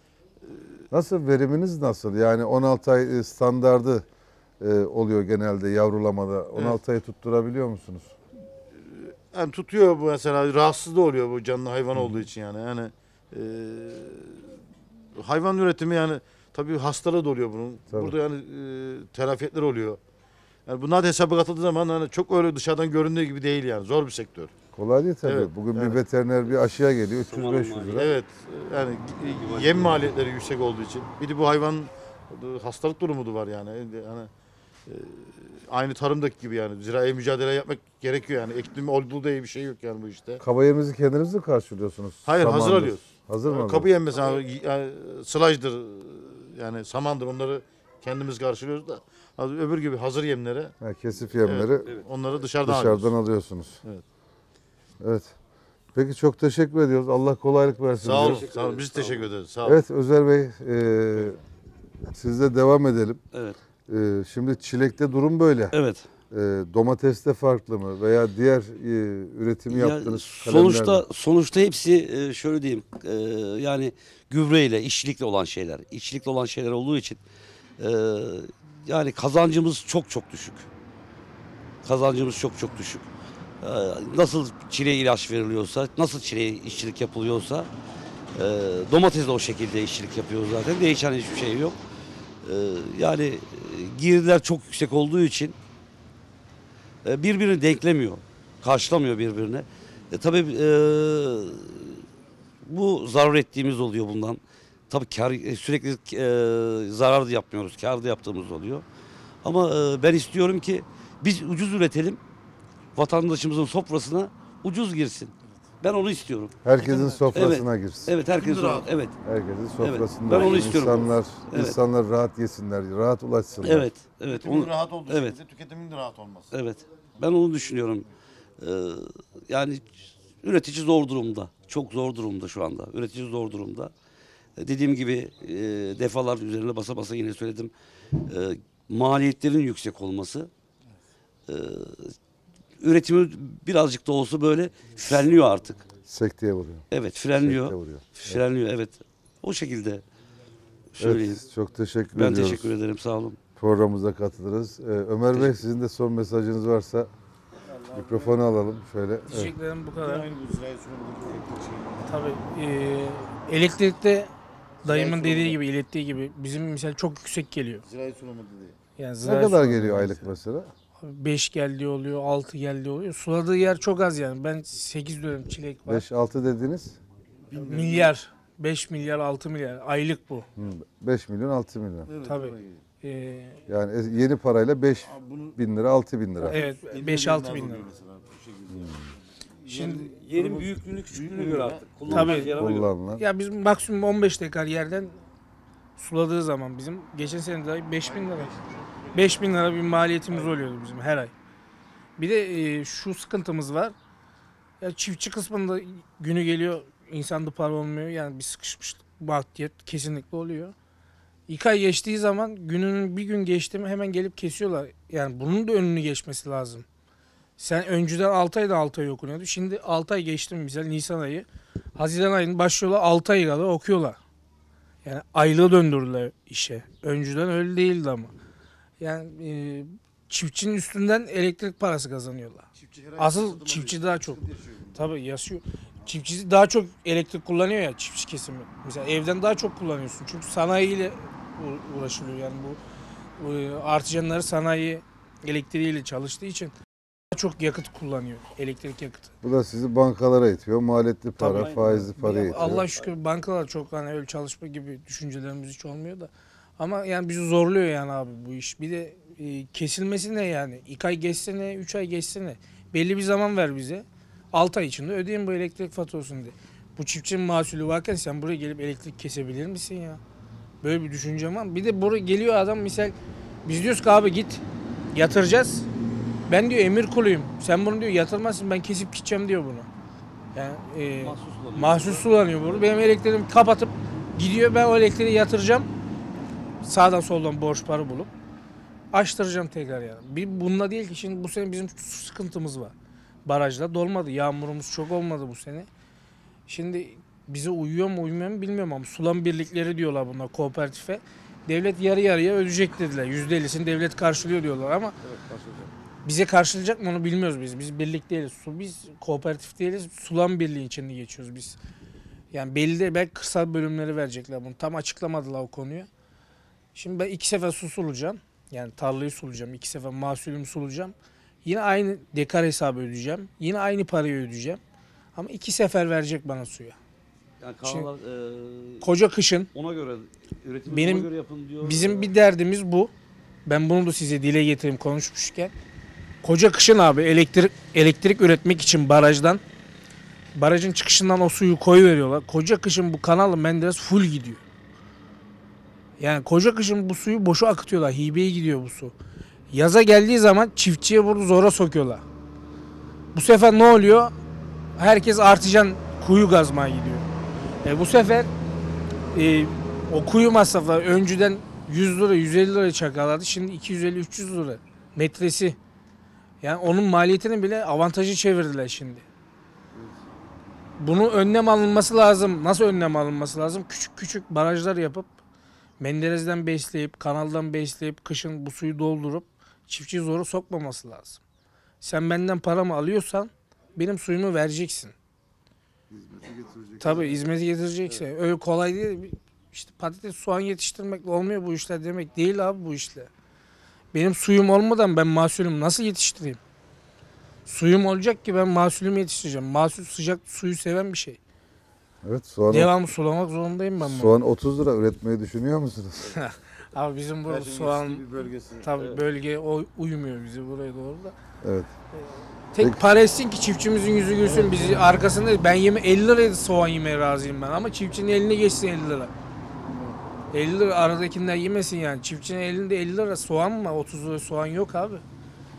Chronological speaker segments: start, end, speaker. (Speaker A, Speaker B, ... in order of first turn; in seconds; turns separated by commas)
Speaker A: 0.9-4.1, Speaker A: 4.6-8.1, Speaker B: 8.7-14.6, Speaker A: 12.0-12.2, Speaker B: 15.2-20.0, Speaker B: 20.7-24.5, Speaker A: 24.7-28.1, Speaker B: 25.3-26.0, Speaker C: 27.3-28.2, Speaker B: 28.0-34.3, Speaker C: 29.2-30.1, Speaker B: 34.9-40.4, Speaker A: 40.4-43.9, Speaker B: 42.2-50.7, Speaker A: 50.8-51.9, Speaker B: 51.4-53.1, Speaker A: 52.6-53.8, Speaker A: 55.0-55.3, Speaker A: 55.9-58.5, Speaker B: 58.0-59.8, Speaker C: 58.0-59.3, Speaker A: 59.6-61.4, Speaker A: 62.1-63.2, Speaker A: 63.9-65.8, Speaker C: 65.7-66.0, Speaker A: 66.3-71.0, Speaker C: 69.7-77.2, Speaker C: 77.8-80.7, Speaker C: 81.8-83.1, Speaker C: 83.6-87.7, Speaker C: 88.3-91.8, Speaker C: 92.4-95.6, Speaker C: 97.0-102.0, Speaker C: 102.7-108.8, Speaker C: 109.4-112.2, Speaker C: 113.0-116.7, Speaker A: 116.6-118.1, Speaker B: 116.8-117.5, Speaker C: 117.3-119.2, Speaker B: 118.3-118.9, Speaker A: 119.2-123.9, Speaker C: 119.8-121.8, Speaker B: 120.3-120.7, Speaker C: 123.6-125.4, Speaker B: 124.3-126.5, Speaker C: 126.5-128.1, Speaker C: 128.6-129.9, Speaker C: 130.4-133.9, Speaker C: 134.6-140.5, Speaker C: 141.5-142.2, Speaker C: 142.8-145.8, Speaker A: 146.1-146.8, Speaker C: 146.9-150.0, Speaker A: 147.4-148.4, Speaker C: 150.9-151.4, Speaker A: 151.0-152.7, Speaker C: 152.2-153.4, Speaker A: 153.6-157.1, Speaker B: 157.7-158.4, Speaker A: 157.9-159.5, Speaker D: 159.3-160.3, Speaker B: 160.0-162.1, Speaker D: 162.1-164.3, Speaker B: 164.8-165.6, Speaker D: 164.8-167.8, Speaker B: 167.8-168.8, Speaker D: 169.0-170.3, Speaker A: 169.2-170.7, Speaker D: 171.0-176.1, Speaker A: 175.9-177.0, Speaker B: 177.5-178.1, Speaker D: 177.6-180.5, Speaker A: 180.6-182.1, Speaker B: 182.1-182.8, Speaker D: 182.2-183.6, Speaker A: 183.7-186.6, Speaker B: 185.1-185.6, Speaker D: 186.4-187.9, Speaker B: 186.5-191.9, Speaker D: 189.7-190.1, Speaker C: 190.1-192.9, Speaker A: 192.1-193.2, Speaker D: 192.1-192.5, Speaker D: 193.2-195.2, Speaker D: 196.0-198.5, Speaker B: 198.0-199.6, Speaker D: 199.1-201.3, Speaker D: 202.2-204.0, Speaker D: 204.8-210.7, Speaker D: 211.5-216.9, Speaker D: 217.6-224.2, Speaker D: 225.0-228.3, Speaker D: 229.0-232.7, Speaker B: 232.8-235.1, Speaker D: 233.2-234.4, Speaker D: 234.9-242.8, Speaker D: 243.4-246.7, Speaker D: 247.3-249.3, Speaker A: 249.4-252.9, Speaker C: 251.4-253.2, Speaker D: 251.4-270.2, Speaker D: 270.8-275.9, Speaker D: 276.5-279.9, Speaker D: 280.5-285.9, Speaker C: 281.2-282.7, Speaker D: 286.8-288.3, Speaker D: 289.1-292.9, Speaker D: 293.5-295.9, Speaker D: 296.7-305.2, Speaker C: 305.2-305.9, Speaker D: 306.2-311.8, Speaker D: 312.5-316.1, Speaker D: 316.9-321.1, Speaker D: 321.6-324.8, Speaker D: 325.4-327.0, Speaker C: 327.6-329.1, Speaker D: 327.8-328.1, Speaker D: 329.0-329.7, Speaker C: 329.7-332.3, Speaker D: 330.9-331.3, Speaker D: 331.8-333.1, Speaker D: 333.7-335.7, Speaker D: 336.4-339.6, Speaker D: 340.6-344.6, Speaker D: 346.2-349.1, Speaker D: 349.7-352.2, Speaker D: 353.3-354.3, Speaker D: 355.0-357.3, Speaker D: 357.8-358.5, Speaker D: 359.3-365.8, Speaker D: 366.6-369.2, Speaker D: 371.0-375.3, Speaker D: 376.0-381.4, Speaker D: 382.0-385.1, Speaker B: 386.1-387.4, Speaker D: 387.0-393.3, Speaker D: 394.1-396.6, Speaker D: 397.7-401.4, Speaker A: 402.2-402.9, Speaker D: 402.7-404.4, Speaker A: 404.0-406.4, Speaker D: 406.3-408.2, Speaker B: 407.5-408.9, Speaker D: 408.8-411.4, Speaker A: 411.6-411.9, Speaker D: 412.7-419.3, Speaker B: 414.4-415.0, Speaker D: 420.5-425.2